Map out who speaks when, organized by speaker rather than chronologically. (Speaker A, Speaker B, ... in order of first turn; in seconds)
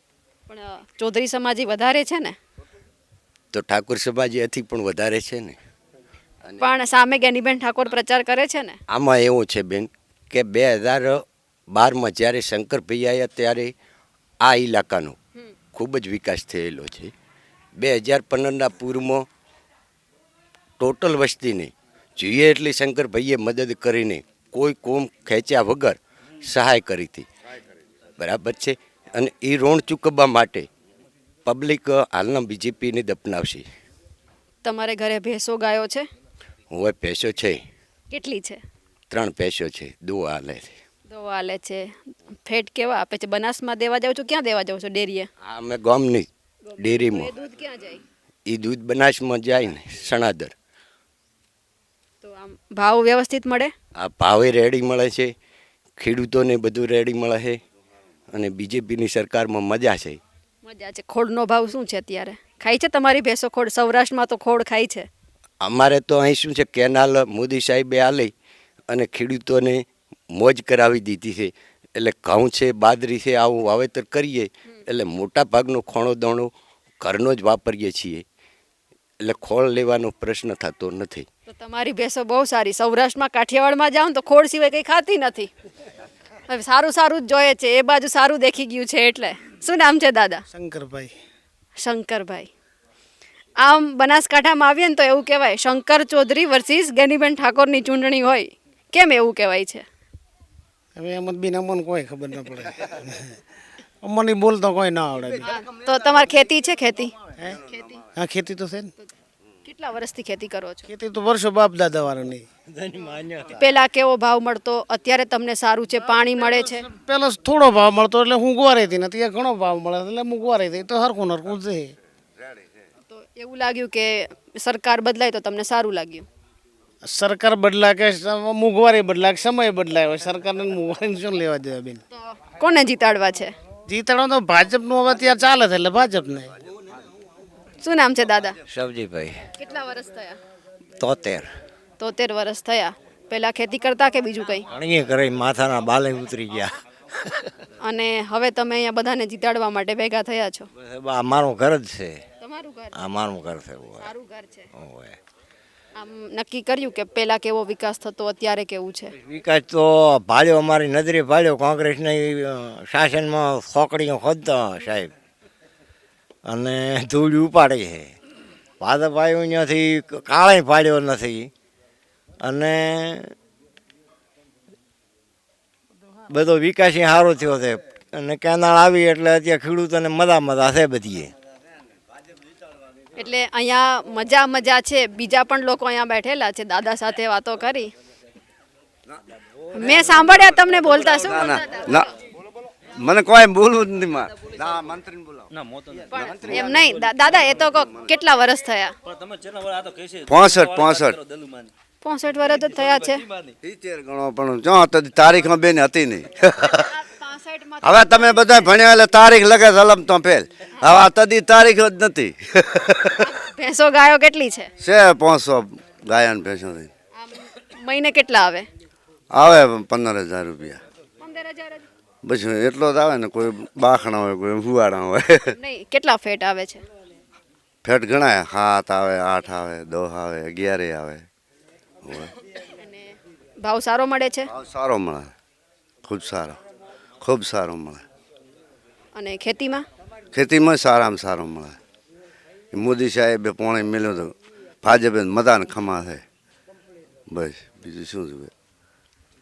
Speaker A: 0.5-2.4, 6.6-8.8, 34.6-36.0, 38.1-38.6, 41.1-45.3, 46.7-48.0, 52.2-53.7, 60.6-65.1, 81.5-85.5, 86.5-90.4, 91.8-92.5, 93.6-99.8, 105.5-107.1, 107.6-108.0, 109.7-110.8, 113.6-116.9, 123.1-126.2, 132.1-133.5, 137.8-138.6, 139.6-140.4, 142.0-144.6, 147.8-150.7, 152.4-153.1, 154.0-154.7, 156.0-159.1, 183.2-187.9, 189.7-192.1, 196.1-198.9, 202.0-203.2, 206.7-208.7, 213.2-214.7, 217.2-218.7, 221.2-221.8, 225.6-226.8, 232.7-233.1, 233.6-234.5, 239.2-239.8
Speaker B: 3.5-5.6, 8.9-13.7, 14.4-15.2, 15.7-17.1, 17.8-19.2, 20.8-27.3, 28.2-30.7, 31.4-33.6, 36.7-37.6, 39.1-40.8, 45.4-46.3, 46.8-47.3, 48.5-50.5, 54.0-55.3, 56.0-57.6, 58.3-60.2, 65.6-68.3, 68.9-78.2, 79.2-81.2
Speaker C: 90.5-91.1, 101.0-103.3, 104.0-105.5, 108.2-108.9, 110.9-112.5, 116.9-121.9, 127.0-132.0, 133.9-136.5
Speaker D: 112.8-113.6, 138.7-139.4, 141.0-141.5, 144.7-146.7, 150.8-152.2, 152.9-154.1, 154.7-155.2, 159.1-165.1, 166.4-168.1, 168.8-171.5, 172.4-173.3, 176.3-181.3
Speaker E: 191.2-192.1, 193.0-195.5, 196.2-196.6, 200.1-201.2, 203.6-206.9, 207.8-213.2, 214.8-216.9, 219.3-220.8, 222.2-225.4, 227.8-231.2, 232.0-232.3, 234.5-235.3, 236.0-236.6, 237.2-238.0, 240.3-241.8, 242.7-246.2, 247.3-248.5